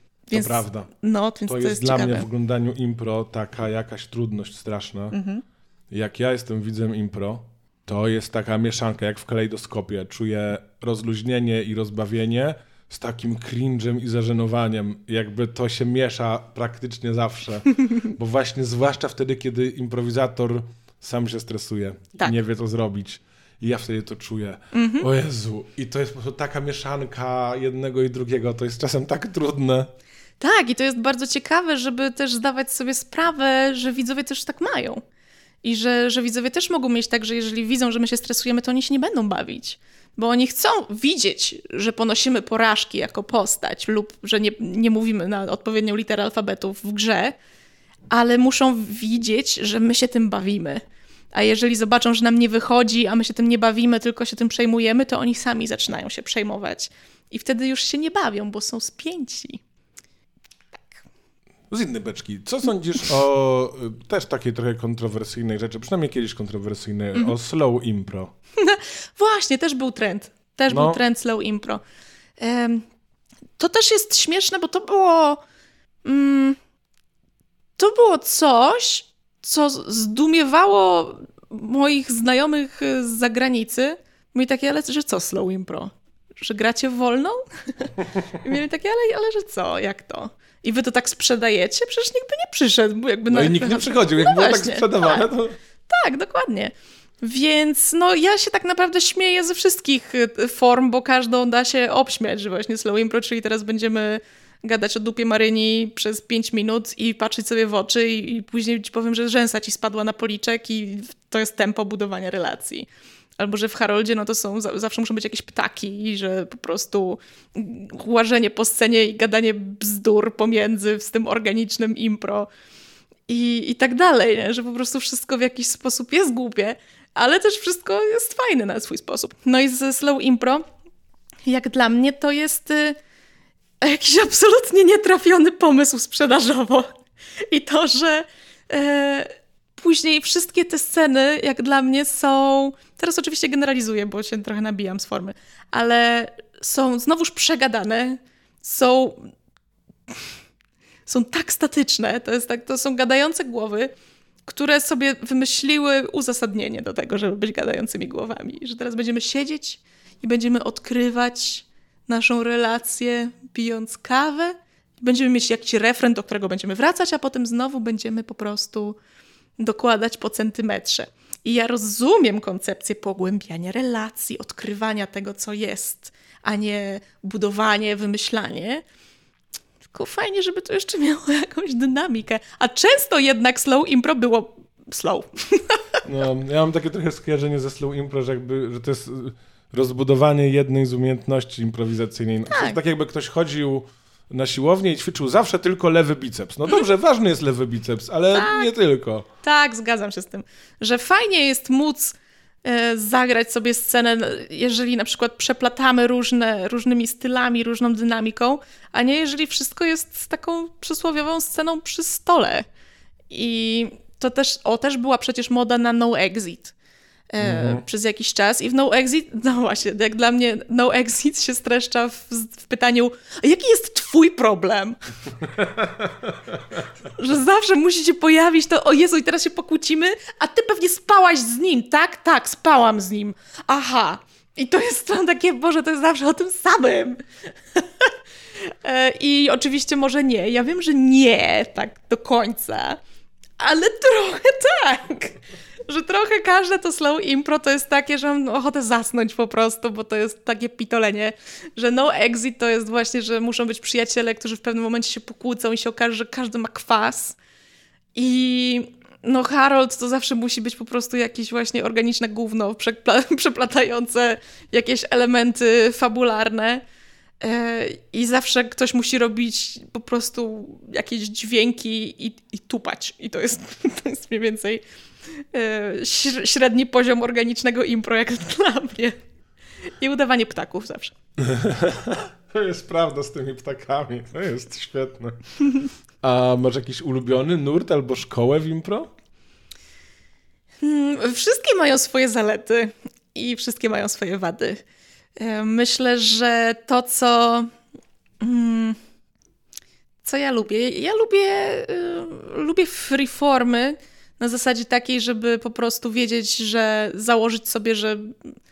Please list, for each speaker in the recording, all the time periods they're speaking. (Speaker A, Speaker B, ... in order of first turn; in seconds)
Speaker A: 0.3-2.3, 5.1-5.4, 24.7-25.1, 30.4-35.0, 35.6-47.4, 48.1-50.8, 51.3-59.6, 68.6-71.8, 72.4-72.8, 73.6-75.4, 76.0-76.6, 77.8-95.2, 95.9-112.9, 113.4-122.5, 123.3-130.6, 131.4-133.0, 133.8-149.3, 151.1-153.9, 154.4-169.0, 169.6-178.8, 179.9-186.0, 192.5-192.8, 198.3-198.7, 199.4-212.7, 213.3-216.7, 217.3-225.0, 227.1-237.2, 237.8-238.1, 238.6-243.0, 243.6-257.4, 258.1-266.8, 267.4-274.8, 275.5-279.1, 280.0-281.1, 290.8-294.8, 295.4-297.7, 298.4-299.0, 300.2-308.4
Speaker B: 0.3-0.9, 1.5-5.1, 5.9-29.9, 61.7-68.3, 70.7-71.0, 93.3-95.5, 186.0-199.2, 217.4-217.8, 225.6-226.3, 281.4-285.4, 286.2-289.1